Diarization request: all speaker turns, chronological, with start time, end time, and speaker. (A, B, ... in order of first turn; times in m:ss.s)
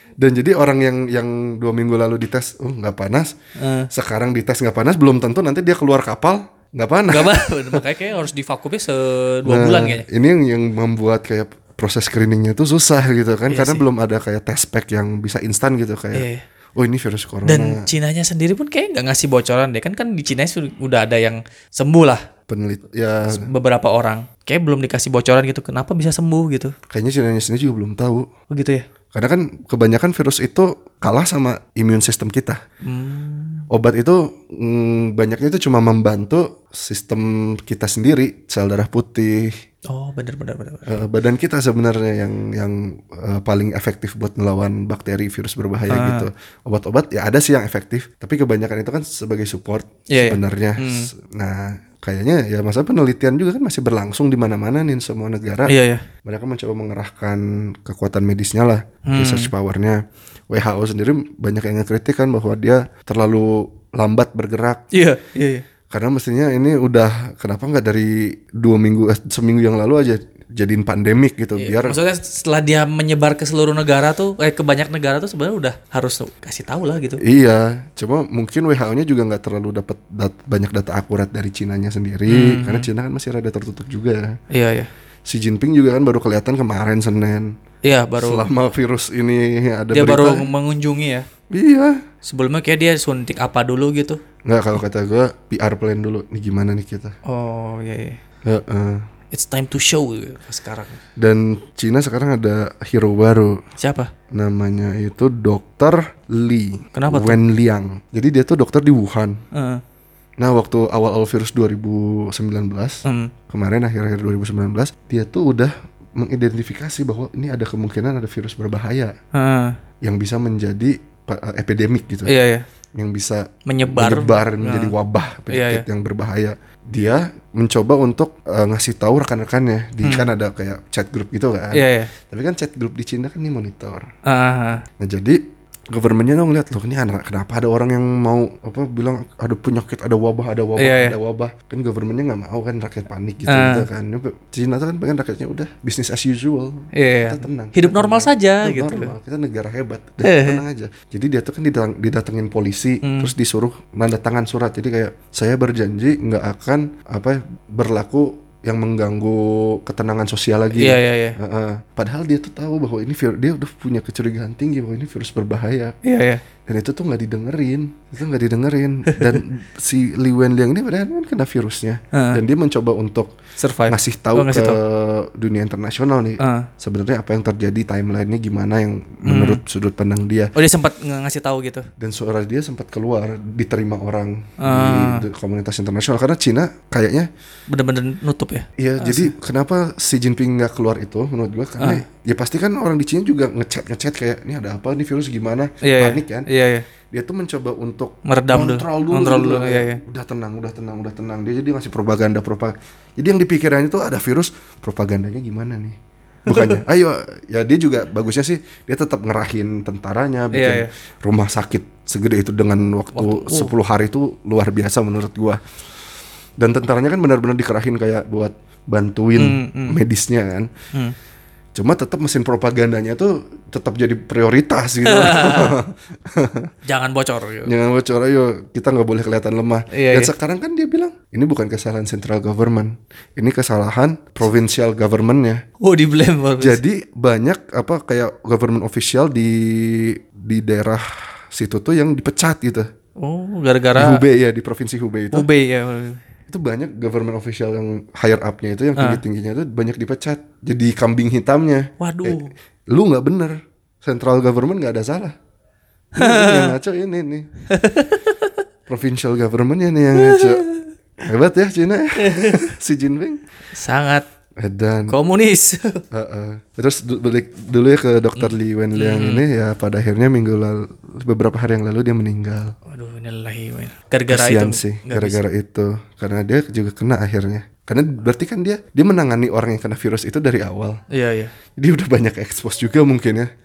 0:00.2-0:03.3 A
0:03.6-0:03.9 B
0:03.9-0:07.8 A
0:07.1-0:10.0 B
0:09.4-0:17.8 A
0:13.5-0:13.8 B
0:16.1-0:16.4 B
0:17.4-0:22.2 B
0:22.5-0:23.4 A
0:23.3-0:26.7 B
0:26.9-0:28.3 A
0:28.5-0:28.8 B
0:29.1-0:32.6 A
0:32.8-0:33.7 B
0:33.7-0:39.5 A
0:39.9-0:41.0 B
0:40.9-0:55.7 A
0:45.9-0:46.3 B
0:50.1-0:51.1 B
0:55.7-0:56.0 B
0:56.2-1:04.8 A
0:59.0-0:59.5 B
1:04.9-1:05.6 B
1:05.9-1:12.0 A
1:11.6-1:17.2 B
1:17.2-1:24.4 A
1:22.3-1:22.9 B
1:24.5-1:24.9 B
1:25.2-1:27.5 A
1:27.8-1:28.5 B
1:28.2-1:30.5 A
1:29.9-1:31.3 B
1:31.5-1:32.0 A
1:32.2-1:34.2 B
1:34.4-1:37.1 A
1:37.2-1:38.2 B
1:38.4-1:39.0 A
1:39.3-1:41.0 B
1:41.2-1:43.6 A
1:43.8-1:44.1 B
1:44.3-1:49.4 A
1:46.9-1:47.4 B
1:49.5-1:49.8 B
1:50.4-1:59.1 A
1:53.0-1:53.3 B
1:59.3-1:59.7 B
2:00.0-2:02.3 A
2:02.2-2:02.6 B
2:03.0-2:14.1 A
2:03.6-2:04.9 B
2:05.5-2:05.8 B
2:10.0-2:10.3 B
2:11.7-2:12.1 B
2:14.2-2:14.8 B
2:15.0-2:15.4 A
2:15.9-2:45.9 A
2:20.8-2:21.2 B
2:23.5-2:23.9 B
2:26.9-2:29.1 B
2:30.2-2:30.6 B
2:33.0-2:33.3 B
2:40.7-2:41.4 B
2:46.0-2:46.4 B
2:46.6-2:53.3 A
2:49.1-2:49.4 B
2:52.1-2:52.4 B
2:53.6-2:54.8 B
2:53.9-3:00.5 A
2:56.4-2:56.7 B
2:59.2-2:59.6 B
3:00.5-3:01.9 B
3:02.0-3:07.3 A
3:04.6-3:05.2 B
3:07.7-3:09.3 B
3:08.8-3:16.5 A
3:15.8-3:16.8 B
3:17.1-3:35.6 A
3:18.2-3:20.0 B
3:26.5-3:26.8 B
3:30.5-3:30.9 B
3:33.1-3:33.7 B
3:36.6-3:40.7 A
3:39.4-3:40.0 B
3:41.7-3:46.7 A
3:45.0-3:45.8 B
3:46.8-3:47.7 B
3:47.6-3:55.6 A
3:49.9-3:50.3 B
3:55.8-3:56.8 B
3:56.6-4:02.9 A
4:03.2-4:04.2 B
4:03.9-4:05.5 A
4:05.3-4:06.2 B
4:06.5-4:15.3 A
4:09.0-4:09.2 B
4:12.0-4:12.5 B
4:16.2-4:16.7 B
4:16.2-4:17.5 A
4:17.7-4:18.6 B
4:18.9-4:20.6 A
4:20.1-4:20.9 B
4:21.2-4:23.4 A
4:22.2-4:22.7 B
4:23.7-4:24.2 B
4:24.6-4:25.1 A
4:25.1-4:26.0 B
4:26.1-4:32.7 A
4:28.4-4:29.4 B
4:32.9-4:35.4 B
4:34.3-4:41.0 A
4:41.1-4:41.5 B
4:41.8-4:43.5 A